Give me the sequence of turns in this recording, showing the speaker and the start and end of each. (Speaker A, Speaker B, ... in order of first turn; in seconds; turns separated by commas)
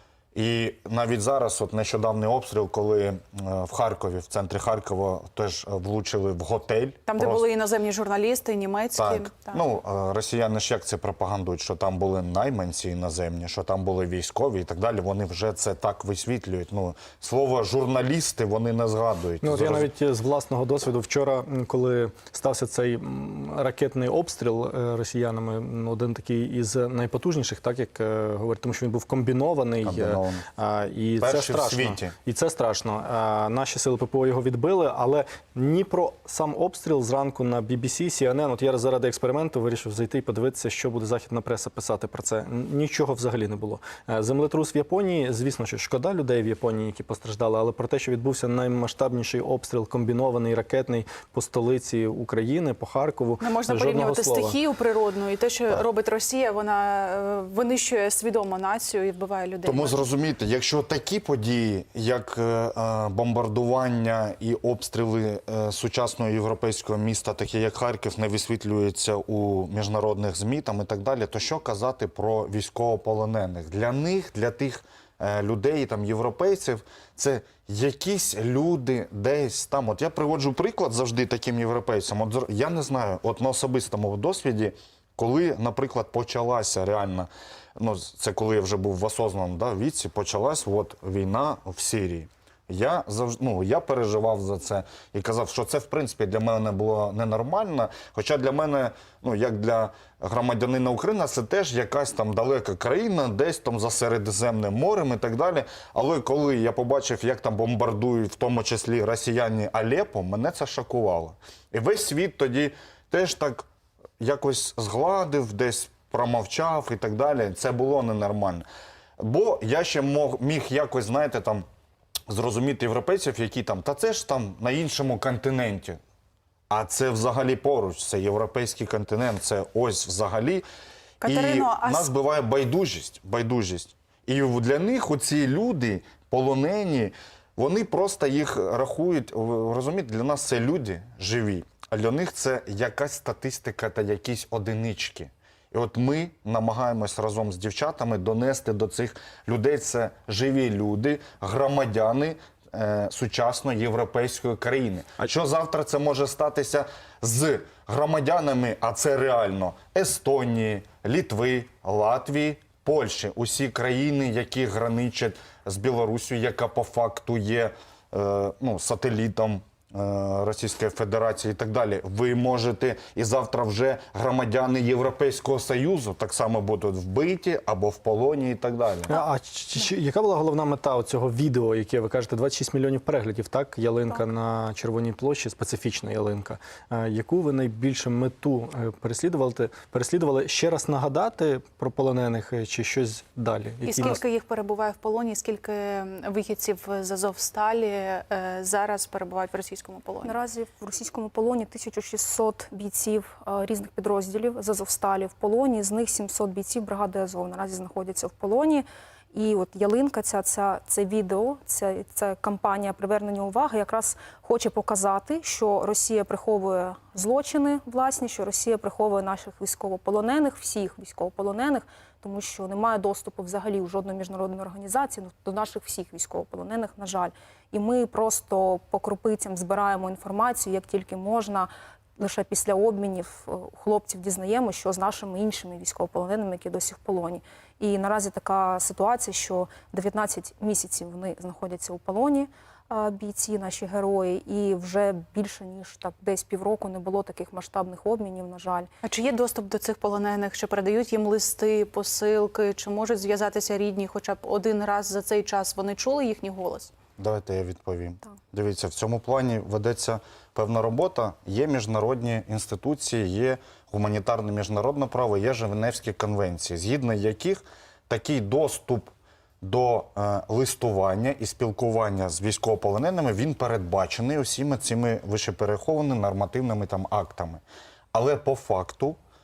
Speaker A: 0.3-7.5, Speaker B: 7.1-9.6, Speaker A: 8.9-19.9, Speaker C: 19.4-54.6, Speaker A: 29.8-30.5, Speaker A: 31.2-32.1, Speaker B: 53.4-60.0, Speaker A: 59.6-113.7, Speaker A: 114.2-118.6, Speaker A: 119.2-121.7, Speaker A: 122.3-126.0, Speaker A: 126.7-130.7, Speaker B: 131.2-132.1, Speaker A: 131.2-179.1, Speaker C: 179.1-194.2, Speaker B: 193.9-200.3, Speaker D: 200.2-248.9, Speaker B: 249.0-256.9, Speaker A: 257.2-277.6, Speaker A: 278.1-279.2